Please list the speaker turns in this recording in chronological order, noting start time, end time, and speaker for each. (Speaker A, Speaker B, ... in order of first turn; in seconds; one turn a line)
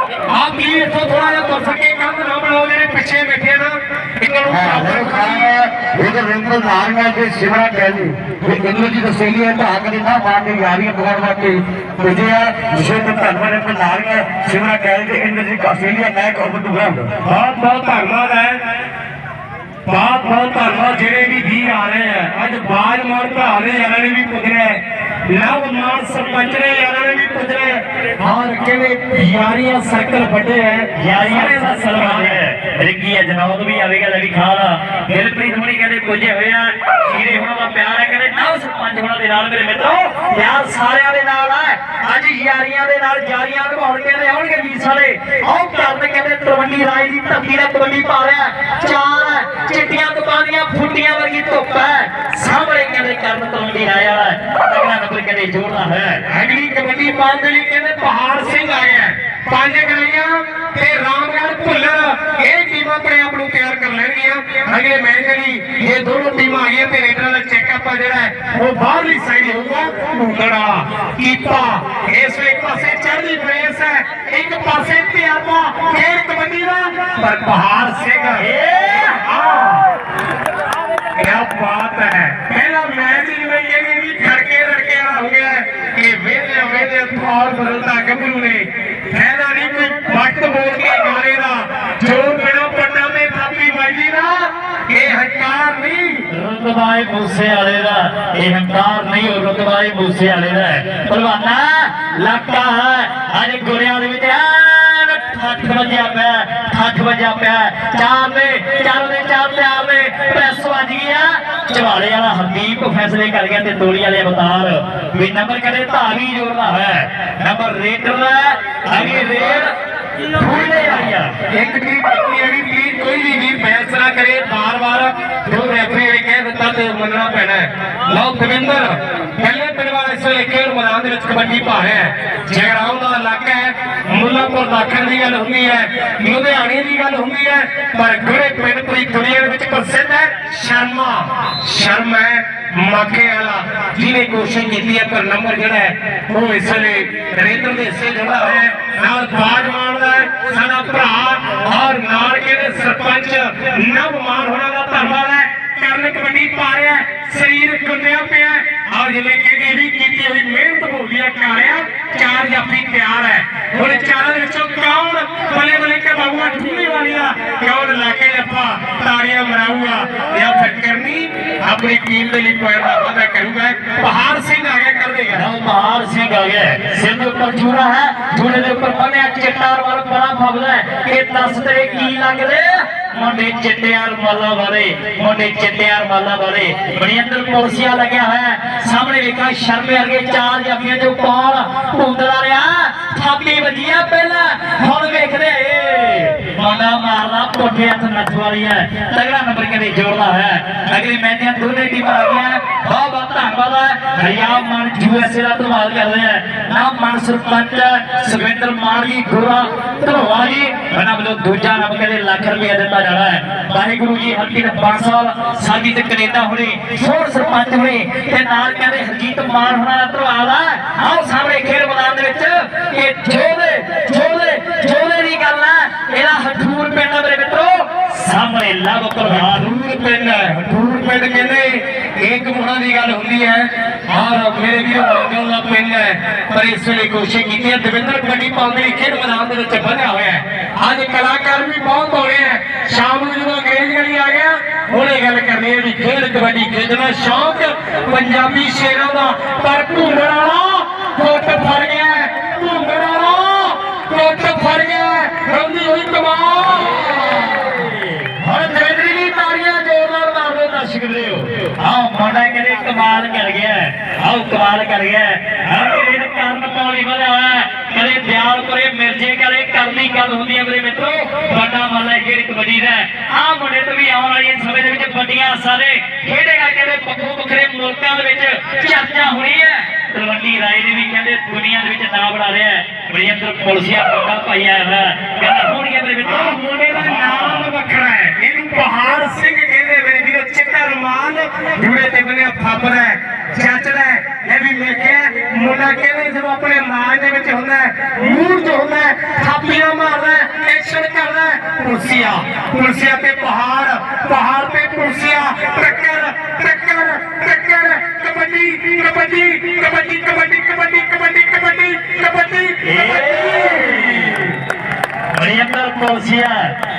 Speaker A: 0.3-5.5
Speaker B: 4.5-17.1
Speaker A: 17.2-18.6
Speaker A: 19.9-32.4
Speaker C: 31.0-56.2
Speaker A: 56.3-78.5
Speaker C: 78.4-79.2
Speaker A: 79.2-79.8
Speaker A: 81.2-96.2
Speaker C: 96.3-119.7
Speaker C: 120.3-121.4
Speaker A: 121.5-175.5
Speaker C: 175.3-229.7
Speaker A: 229.2-257.1
Speaker C: 256.9-287.7
Speaker A: 286.2-313.2
Speaker C: 312.8-314.6
Speaker C: 315.3-316.6